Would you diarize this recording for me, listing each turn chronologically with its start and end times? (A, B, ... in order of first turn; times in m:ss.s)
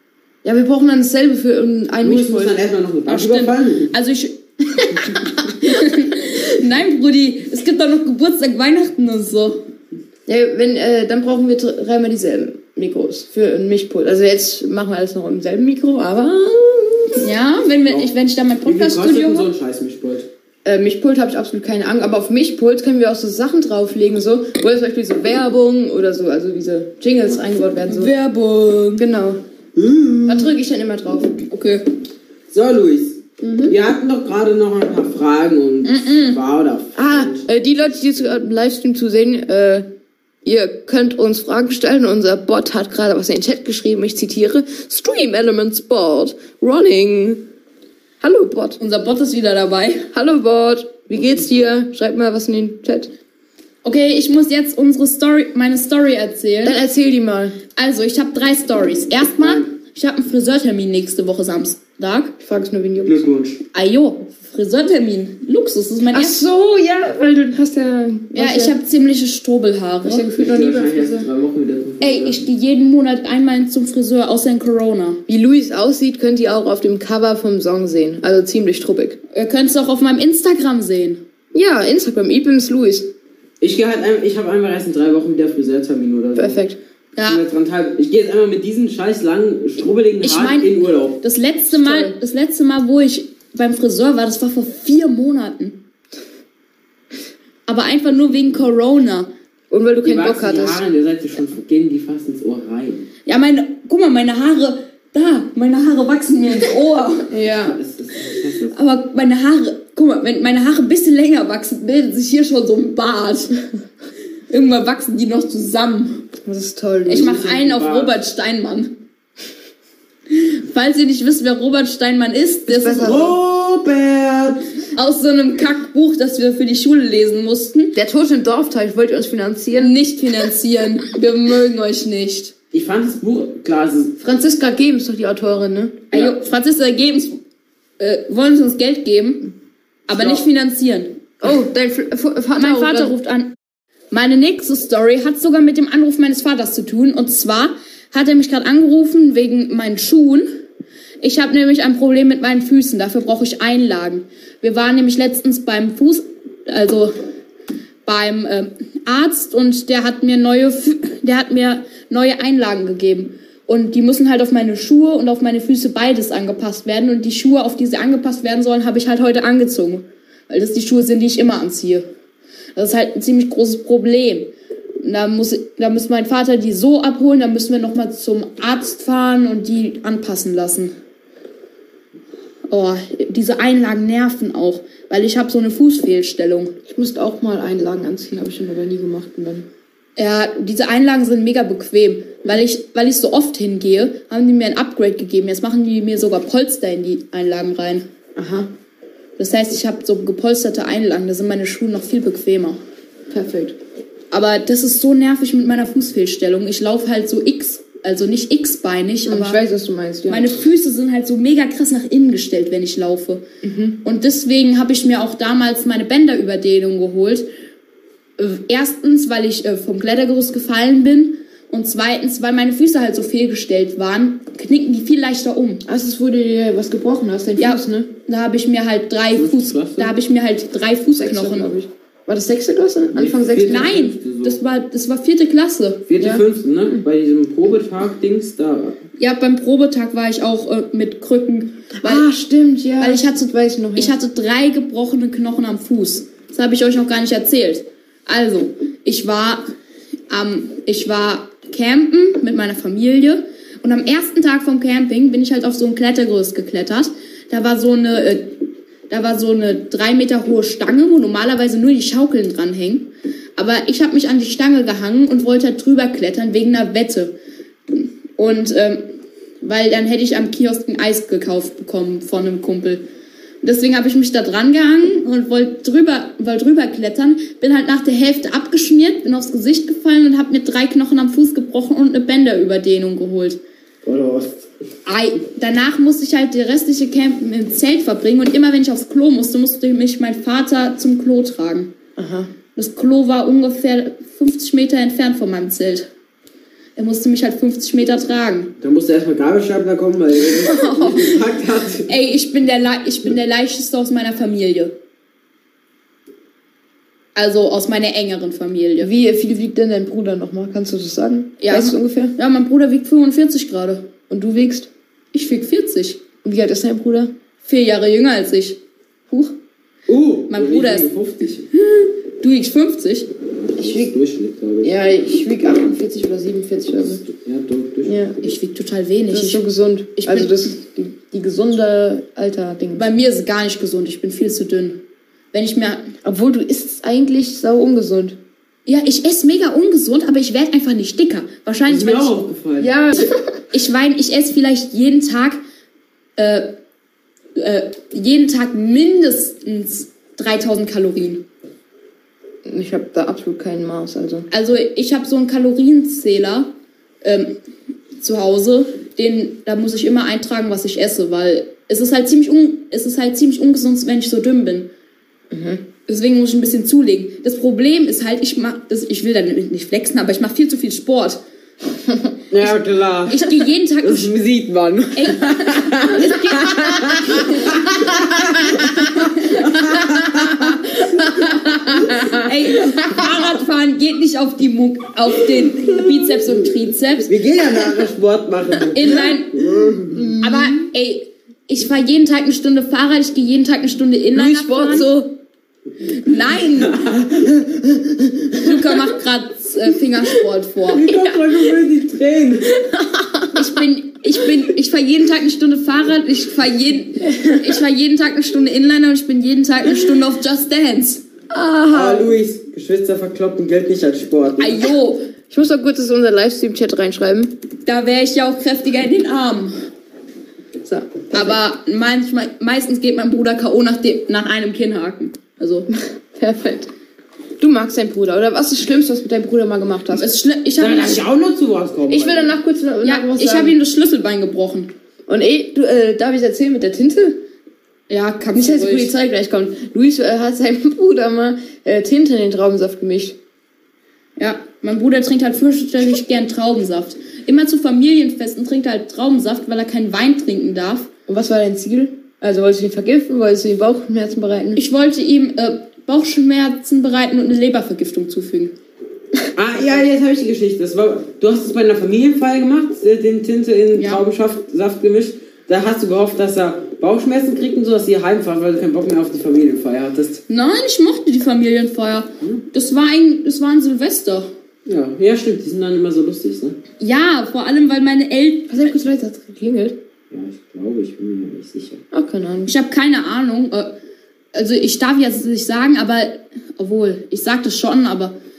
0:00.4-0:02.6 A
0:02.0-0:03.9 B
0:03.1-0:09.6 C
0:10.3-0:17.3 A
0:17.2-0:19.5 C
0:18.6-0:20.3 B
0:20.6-0:28.1 A
0:27.9-0:29.0 C
0:29.0-0:29.4 A
0:29.8-0:30.5 B
0:30.2-0:31.4 A
0:31.5-0:31.8 C
0:32.5-0:37.4 B
0:33.4-0:33.7 A
0:35.8-0:36.4 C
0:36.9-0:39.9 A
0:40.4-0:47.4 A
0:48.2-0:48.8 A
0:48.8-0:50.1 C
0:50.1-0:53.1 A
0:53.8-0:56.8 C
0:56.6-0:57.6 A
0:57.8-1:02.3 C
1:02.4-1:03.2 A
1:03.0-1:03.6 B
1:03.7-1:06.4 C
1:06.1-1:08.7 A
1:08.3-1:10.3 C
1:10.0-1:11.3 A
1:10.4-1:12.4 B
1:12.0-1:15.2 C
1:15.3-1:19.2 A
1:19.3-1:21.2 C
1:21.5-1:23.1 A
1:23.6-1:26.6 B
1:26.4-1:26.8 A
1:27.2-1:27.4 C
1:27.3-1:31.2 B
1:30.2-1:35.8 C
1:31.7-1:32.1 A
1:37.7-1:39.3 C
1:39.7-1:40.8 A
1:40.0-1:43.0 B
1:43.2-1:47.3 C
1:47.3-1:47.8 A
1:47.5-1:48.7 B
1:48.7-1:53.5 C
1:54.5-1:56.3 C
1:56.4-1:57.3 A
1:57.0-1:58.9 C
1:57.1-1:58.1 B
2:00.3-2:03.2 C
2:02.7-2:03.4 A
2:03.0-2:04.6 B
2:04.9-2:07.9 C
2:07.9-2:09.9 A
2:09.8-2:12.5 C
2:12.7-2:14.2 B
2:14.2-2:16.1 A
2:16.1-2:17.4 C
2:18.0-2:19.5 C
2:20.1-2:21.1 C
2:20.1-2:20.4 B
2:21.4-2:23.1 A
2:22.5-2:23.5 C
2:24.1-2:30.5 C
2:31.2-2:37.1 C
2:38.0-2:52.0 C
2:52.7-3:00.9 C
3:02.7-3:06.8 C
3:06.9-3:09.6 A
3:10.2-3:18.0 C
3:18.4-3:18.7 A
3:19.4-3:22.8 C
3:23.3-3:23.8 A
3:24.3-3:29.6 C
3:29.2-3:30.5 A
3:30.3-3:33.4 C
3:33.6-3:34.0 A
3:34.0-3:37.5 C
3:38.4-3:45.8 C
3:45.8-3:48.1 A
3:47.6-3:51.7 C
3:49.3-3:50.1 B
3:51.2-3:53.9 A
3:53.1-3:54.6 B
3:53.6-3:56.0 C
3:56.1-3:59.0 B
3:56.2-3:56.4 A
3:59.2-4:02.2 C
4:02.0-4:04.1 A
4:03.0-4:09.7 C
4:10.3-4:27.3 C
4:27.9-4:29.0 C
4:29.6-4:33.0 C
4:33.6-4:43.6 C
4:44.0-4:44.7 B
4:45.0-4:51.9 C
4:52.2-4:52.5 A
4:52.8-4:56.1 C
4:57.0-4:58.7 C
4:58.8-5:02.1 B
5:00.6-5:01.4 C
5:02.1-5:05.0 C
5:07.3-5:09.1 C
5:09.0-5:12.3 A
5:11.6-5:14.1 C
5:14.3-5:14.9 A
5:15.3-5:16.2 C
5:16.4-5:17.3 A
5:17.6-5:19.5 C
5:20.1-5:21.7 B
5:20.5-5:21.1 C
5:21.9-5:23.3 C
5:23.6-5:24.9 B
5:23.8-5:24.1 A
5:24.8-5:27.2 A
5:27.3-5:28.2 B
5:28.0-5:28.4 A
5:28.4-5:29.6 C
5:29.3-5:33.1 A
5:30.2-5:30.7 C
5:33.0-5:35.0 C
5:35.5-5:36.1 C
5:36.2-5:38.4 A
5:38.8-5:42.4 C
5:41.9-5:42.9 B
5:42.8-5:43.4 A
5:43.7-5:45.6 C
5:46.4-5:46.7 C
5:47.6-5:51.4 C
5:52.6-5:54.5 A
5:54.5-5:57.6 C
5:58.2-6:04.9 C
6:05.5-6:05.8 A
6:06.1-6:11.4 C
6:12.0-6:12.3 A
6:12.5-6:22.4 B
6:13.3-6:14.3 C
6:15.1-6:17.9 C
6:19.1-6:19.7 C
6:20.9-6:27.3 C
6:21.2-6:21.7 A
6:25.9-6:26.4 B
6:27.3-6:30.3 B
6:28.9-6:29.6 C
6:30.1-6:30.8 A
6:30.4-6:35.3 C
6:34.3-6:35.3 A
6:36.0-6:37.0 C
6:36.8-6:37.6 B
6:37.5-6:38.6 A
6:38.6-6:41.1 C
6:40.9-6:42.7 B
6:41.1-6:41.4 A
6:42.7-6:43.8 A
6:43.5-6:51.2 C
6:51.5-6:52.4 A
6:51.9-6:54.9 B
6:54.6-6:55.3 C
6:55.5-6:57.5 A
6:57.8-6:59.8 C
7:00.8-7:01.6 A
7:01.3-7:05.9 C
7:05.9-7:06.9 A
7:07.6-7:10.3 A
7:10.1-7:11.2 C
7:10.8-7:12.6 B
7:12.1-7:13.8 A
7:13.0-7:14.9 C
7:15.3-7:17.4 A
7:18.1-7:19.1 C
7:18.5-7:23.4 A
7:24.4-7:31.1 C
7:31.3-7:34.8 A
7:34.8-7:38.7 C
7:39.5-7:50.4 B
7:43.9-7:44.2 C
7:50.5-7:54.5 C
7:54.8-7:56.8 B
7:57.0-7:58.9 C
7:58.7-8:00.0 A
8:00.3-8:02.0 B
8:02.1-8:02.7 A
8:02.6-8:04.0 C
8:04.5-8:08.4 C